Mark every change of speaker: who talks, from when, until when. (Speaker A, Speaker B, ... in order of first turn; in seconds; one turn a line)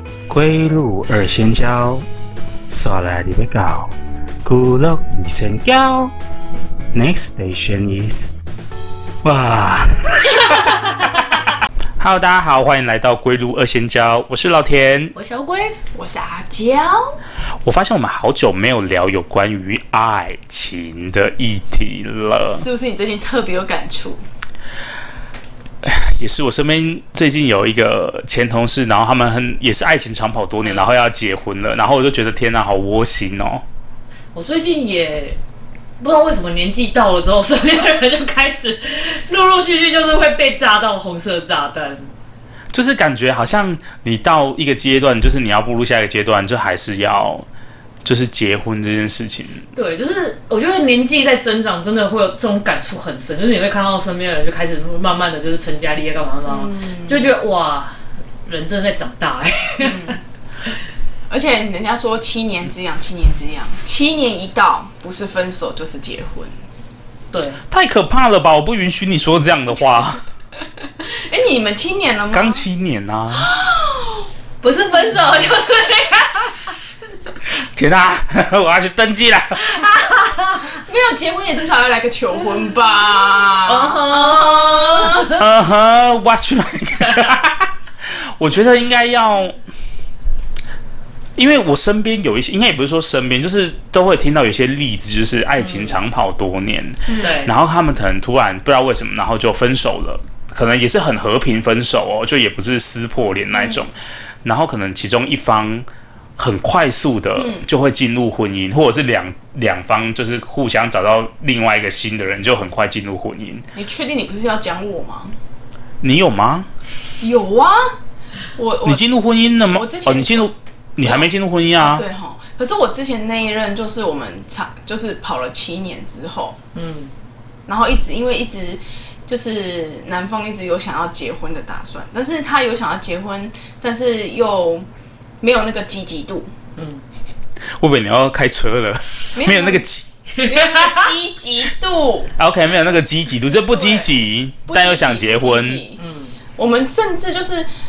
Speaker A: 0.3-2.0
Speaker A: 2.7-6.1
Speaker A: 6.9-8.4
Speaker A: 9.2-10.8
Speaker A: 12.0-15.1
Speaker B: 15.1-15.8
Speaker C: 15.9-17.0
Speaker A: 17.6-22.6
Speaker C: 22.5-24.2
Speaker A: 25.8-33.6
Speaker B: 30.6-30.9
Speaker B: 34.3-35.4
Speaker B: 36.0-42.1
Speaker A: 42.7-47.5
Speaker A: 48.0-49.6
Speaker B: 49.7-60.2
Speaker C: 56.5-57.3
Speaker C: 59.8-60.2
Speaker C: 61.3-66.6
Speaker B: 67.3-67.6
Speaker A: 67.7-70.2
Speaker C: 71.0-72.6
Speaker A: 72.3-73.5
Speaker C: 73.3-74.3
Speaker B: 74.6-76.7
Speaker C: 75.0-75.3
Speaker A: 77.6-79.8
Speaker B: 79.7-80.6
Speaker C: 80.7-85.3
Speaker B: 83.7-85.4
Speaker A: 85.3-89.6
Speaker A: 91.4-103.9
Speaker B: 95.6-96.0
Speaker C: 97.1-97.3
Speaker B: 97.2-97.5
Speaker C: 103.5-103.8
Speaker A: 104.4-105.9
Speaker A: 106.4-113.6
Speaker C: 107.4-107.7
Speaker C: 113.8-115.3
Speaker A: 116.0-116.7
Speaker C: 117.2-117.9
Speaker C: 118.6-119.0
Speaker A: 118.8-122.0
Speaker C: 119.7-126.6
Speaker B: 126.7-127.1
Speaker C: 127.7-134.9
Speaker C: 135.4-136.5
Speaker B: 136.8-137.0
Speaker A: 137.8-140.1
Speaker C: 139.3-139.8
Speaker B: 140.4-141.1
Speaker C: 140.4-142.3
Speaker A: 142.4-145.8
Speaker C: 143.7-144.1
Speaker C: 144.7-146.0
Speaker B: 146.0-146.4
Speaker C: 146.6-147.7